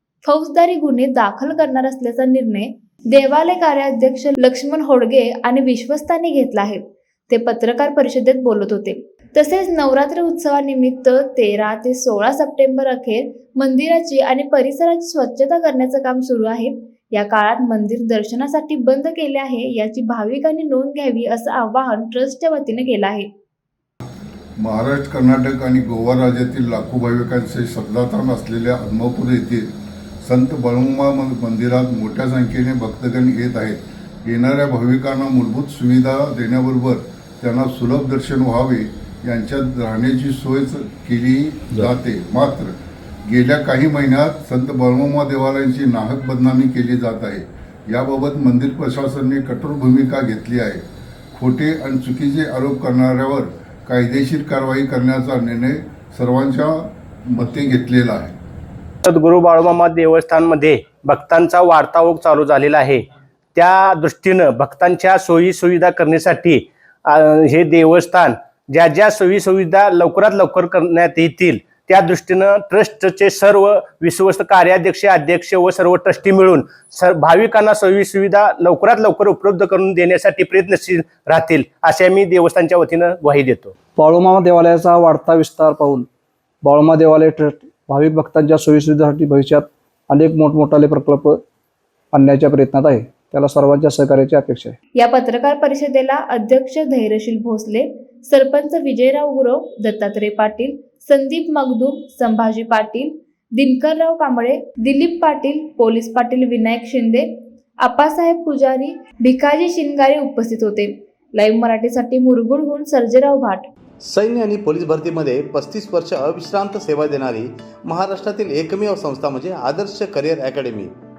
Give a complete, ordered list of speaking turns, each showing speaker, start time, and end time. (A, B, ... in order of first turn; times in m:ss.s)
0:00.2-0:23.3 A
0:24.6-0:29.7 B
0:30.2-0:58.4 B
0:59.0-1:03.0 C
1:03.5-1:23.7 C
1:24.0-1:26.1 D
1:26.6-1:31.4 D
1:32.1-1:34.7 D
1:35.0-1:53.7 A
1:54.0-2:00.9 E